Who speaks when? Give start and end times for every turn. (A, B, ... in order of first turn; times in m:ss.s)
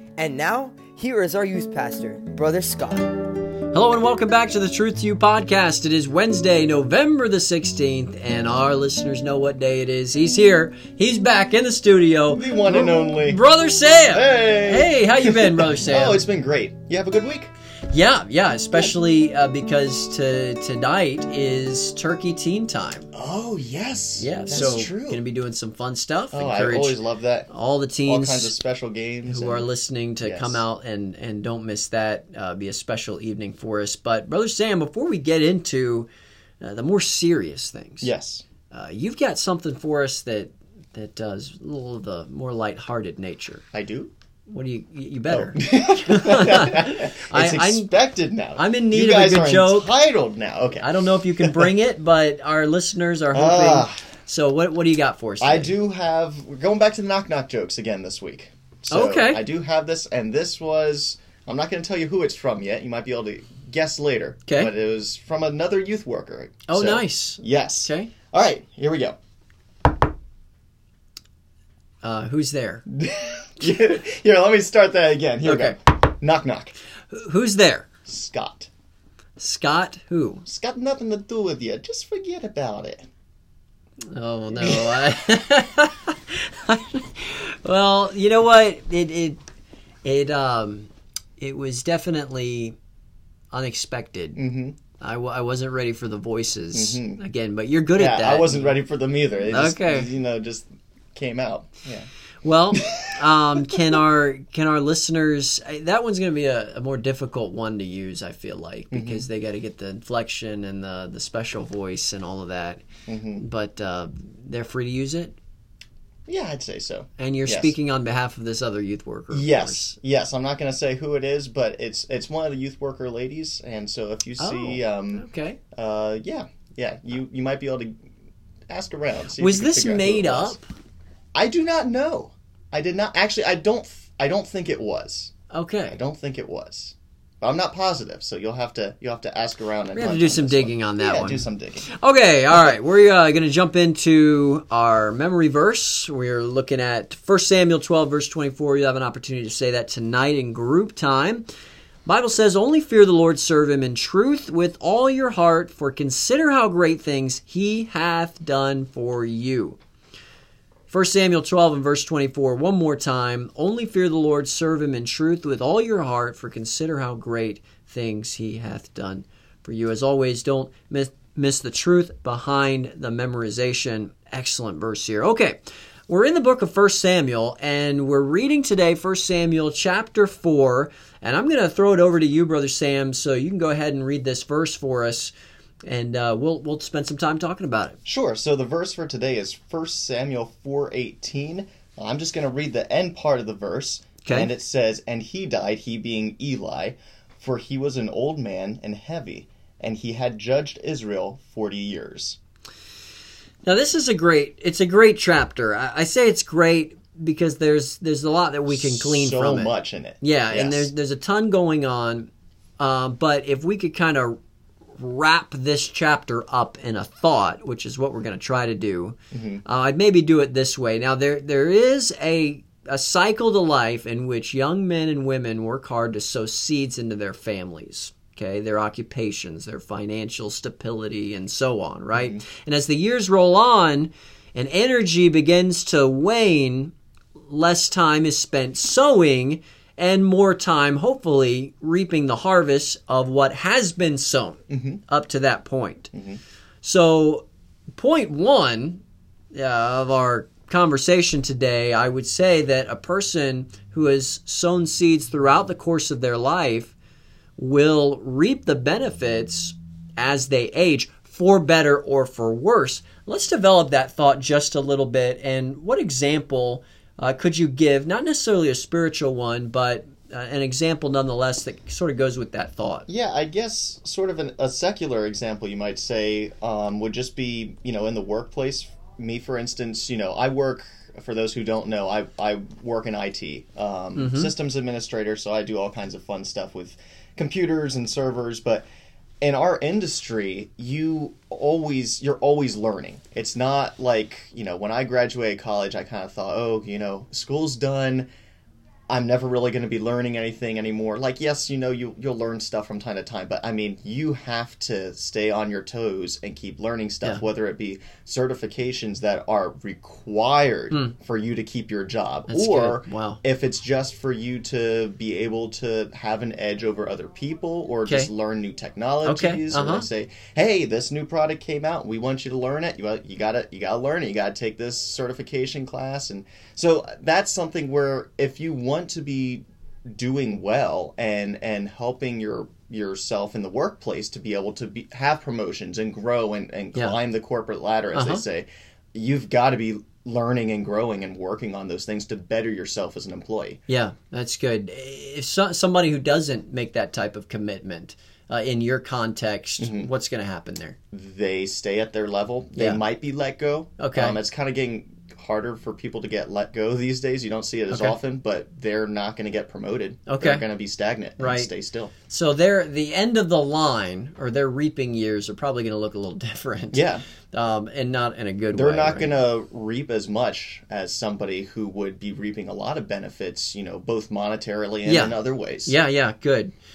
0:00.2-0:03.2 A
0:03.7-0:16.2 B
0:12.3-0:13.4 C
0:14.1-0:17.5 C
0:17.9-0:23.1 B
0:23.1-0:25.2 C
0:24.2-0:28.6 B
0:26.3-0:27.5 C
0:28.0-0:30.6 C
0:29.2-0:36.1 B
0:36.6-0:38.1 B
0:38.0-0:38.4 C
0:38.7-0:43.6 B
0:43.7-0:44.1 C
0:44.5-0:47.9 B
0:45.3-0:51.8 C
0:48.6-0:50.0 B
0:50.8-0:55.8 B
0:53.3-0:54.0 C
0:55.4-1:09.2 C
0:58.9-0:59.4 B
1:04.4-1:04.7 B
1:06.7-1:08.1 B
1:12.0-1:12.8 B
1:12.9-1:16.8 C
1:15.4-1:15.8 B
1:17.1-1:17.9 B
1:18.1-1:18.7 C
1:19.4-1:20.4 B
1:20.4-1:23.1 C
1:24.1-1:29.4 B
1:24.6-1:25.1 C
1:30.0-1:32.8 B
1:33.5-1:34.4 B
1:34.4-1:34.8 C
1:35.0-1:38.8 B
1:36.7-1:37.2 C
1:38.0-1:42.1 C
1:39.4-1:40.1 B
1:42.4-1:52.8 B
1:42.7-1:44.0 C
1:48.9-1:49.3 C
1:53.1-1:53.4 C
1:53.4-1:55.4 B
1:56.3-1:57.8 C
1:57.2-1:59.9 B
1:59.3-2:08.0 C
2:04.4-2:05.6 B
2:08.7-2:10.6 C
2:09.4-2:10.7 B
2:11.3-2:15.3 C
2:15.5-2:16.0 B
2:15.8-2:21.9 C
2:19.9-2:31.4 B
2:32.1-2:39.8 B
2:40.9-3:05.3 B
3:05.8-3:08.0 B
3:08.0-3:22.4 C
3:14.2-3:14.5 B
3:23.6-3:34.4 B
3:28.7-3:30.9 C
3:35.0-3:56.9 B
3:39.3-3:39.6 C
3:52.1-3:52.4 C
3:57.5-4:06.1 B
4:04.7-4:05.0 C
4:06.1-4:06.4 C
4:06.8-4:09.0 B
4:09.5-4:16.9 B
4:17.6-4:33.0 B
4:33.1-4:48.8 C
4:44.2-4:44.5 B
4:49.4-4:58.3 C
4:59.1-5:43.8 C
5:12.5-5:13.4 B
5:18.0-5:18.3 B
5:19.2-5:20.1 B
5:38.1-5:38.4 B
5:43.9-5:51.0 B
5:49.8-5:50.1 C
5:51.1-6:02.1 C
5:52.8-5:53.0 B
5:54.0-5:54.4 B
5:57.9-5:58.2 B
6:00.3-6:00.6 B
6:01.4-6:01.7 B
6:02.3-6:09.3 B
6:06.9-6:07.2 C
6:08.7-6:15.9 C
6:15.0-6:16.7 B